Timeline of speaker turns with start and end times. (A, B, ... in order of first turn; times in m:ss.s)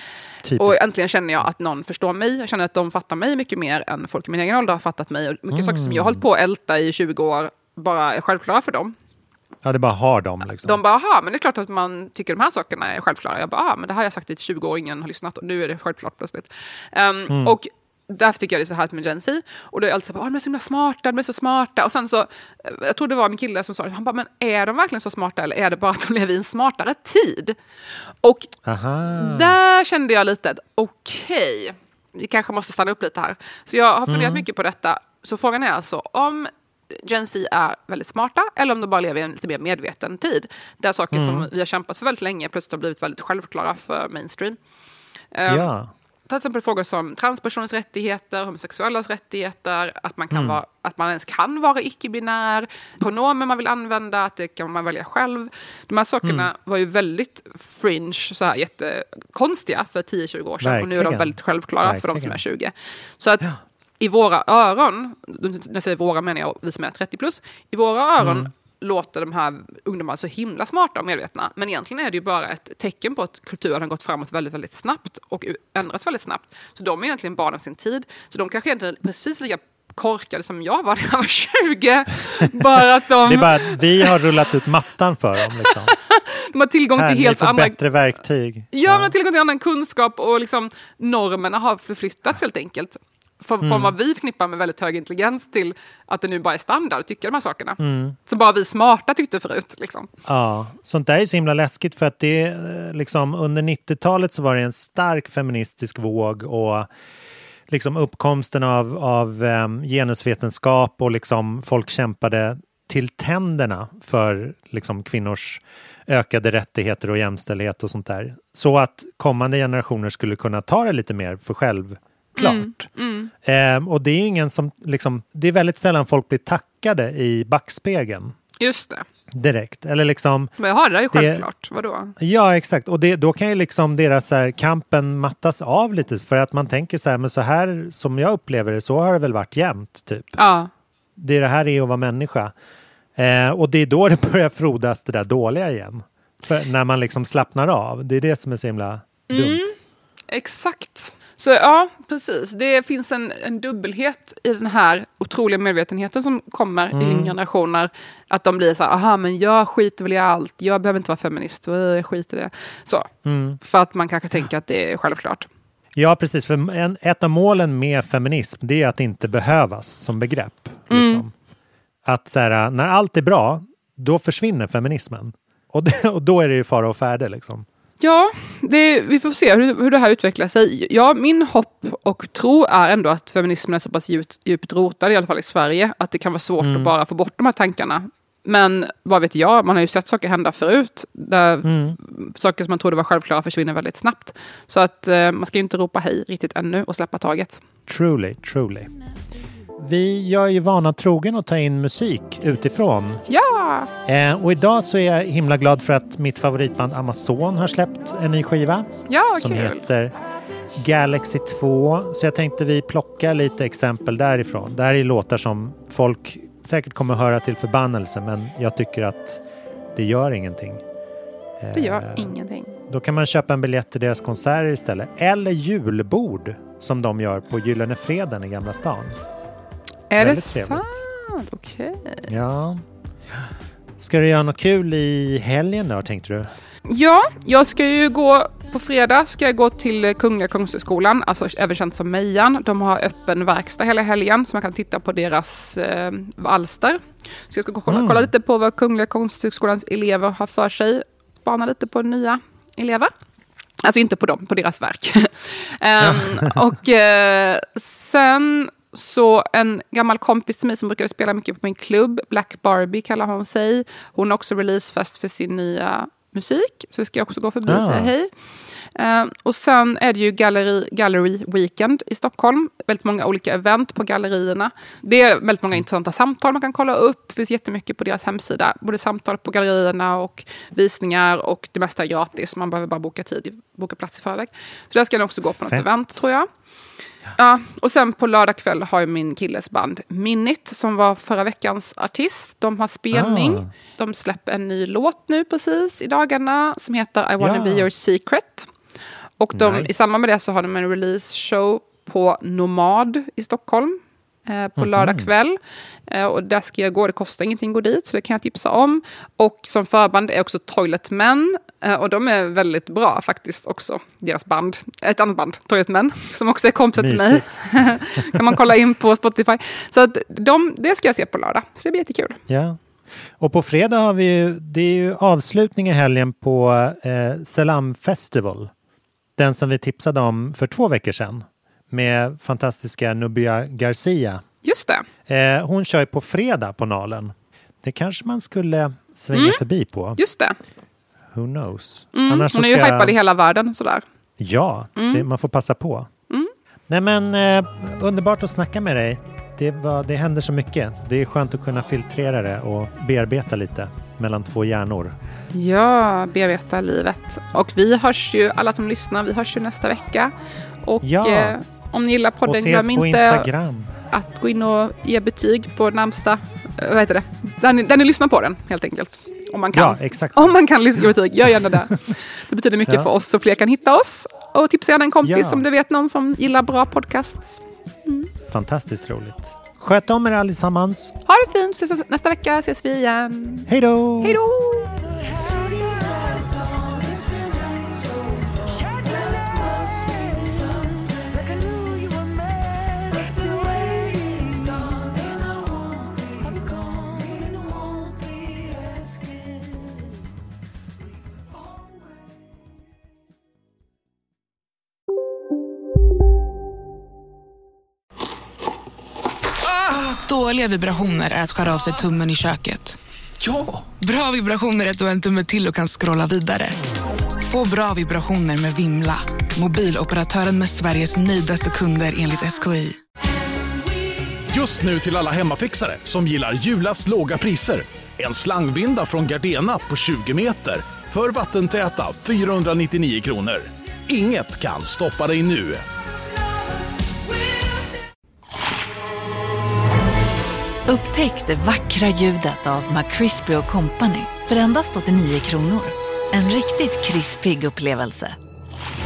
0:00.4-0:00.8 A
0:00.6-0:08.9 B
0:05.5-0:06.2 A
0:09.6-0:10.8 A
0:10.6-0:27.6 B
0:17.3-0:17.6 A
0:28.2-0:28.5 B
0:28.6-0:29.6 A
0:29.1-0:44.6 B
0:34.1-0:34.4 A
0:41.1-0:41.5 A
0:45.3-0:45.7 B
0:45.5-0:45.9 A
0:46.3-1:03.5 B
0:50.3-0:50.6 A
0:56.2-0:56.5 A
1:00.6-1:02.4 A
1:04.0-1:24.1 B
1:08.2-1:08.5 A
1:23.2-1:25.9 A
1:25.6-1:27.8 B
1:27.0-1:29.1 A
1:28.7-1:40.1 B
1:33.6-1:33.9 A
1:37.8-1:38.2 A
1:40.2-1:46.9 A
1:47.7-2:02.9 A
2:02.4-2:03.3 B
2:03.4-2:08.3 A
2:08.6-2:09.0 B
2:09.3-2:10.6 A
2:10.6-2:12.1 B
2:11.1-2:11.5 A
2:12.2-2:20.4 A
2:20.4-2:20.7 B
2:21.2-2:22.5 A
2:23.2-2:29.6 A
2:29.3-2:29.7 B
2:30.3-2:45.5 B
2:36.9-2:37.3 A
2:43.2-2:43.6 A
2:46.0-2:51.3 A
2:50.9-2:51.2 B
2:52.0-2:57.6 A
2:58.0-3:17.6 B
3:06.6-3:06.9 A
3:11.6-3:12.0 A
3:17.9-3:18.9 A
3:19.8-3:23.2 A
3:23.3-3:23.9 B
3:24.0-3:30.1 A
3:29.1-3:29.8 B
3:30.7-3:39.4 A
3:39.9-3:40.8 A
3:41.6-3:42.3 A
3:41.7-3:42.8 B
3:42.9-3:49.2 A
3:50.1-3:52.3 B
3:50.2-3:51.0 A
3:52.3-3:52.8 A
3:54.0-3:56.5 A
3:56.9-4:13.1 B
4:07.9-4:08.3 A
4:13.8-4:28.3 B
4:16.0-4:16.5 A
4:27.7-4:28.1 A
4:28.9-4:46.5 B
4:45.6-4:45.9 A
4:47.4-4:58.7 B
4:53.1-4:53.7 A
4:57.4-4:57.9 A
4:59.4-5:22.4 B
4:59.5-5:00.0 A
5:04.8-5:05.3 A
5:17.0-5:18.4 A
5:22.5-5:22.8 A
5:23.4-5:28.7 A
5:29.4-5:34.4 A
5:34.6-5:35.0 B
5:35.3-5:40.2 A
5:39.3-5:39.6 B
5:40.2-5:40.6 B
5:41.3-5:43.2 A
5:42.1-5:44.0 B
5:44.4-5:46.1 A
5:45.0-5:45.2 B
5:46.9-5:55.1 A
5:55.5-6:00.3 B
6:00.8-6:03.5 B
6:01.0-6:01.6 A
6:02.4-6:03.9 A
6:04.1-6:18.3 B
6:09.7-6:10.6 A
6:12.8-6:13.1 A
6:15.2-6:15.6 A
6:18.5-6:21.1 A
6:21.3-6:23.7 B
6:23.7-6:24.4 A
6:24.2-6:25.0 B
6:49.8-6:53.0 C
6:53.5-6:56.8 C
6:57.4-7:03.0 C
7:04.5-7:15.8 D
7:20.9-7:28.4 E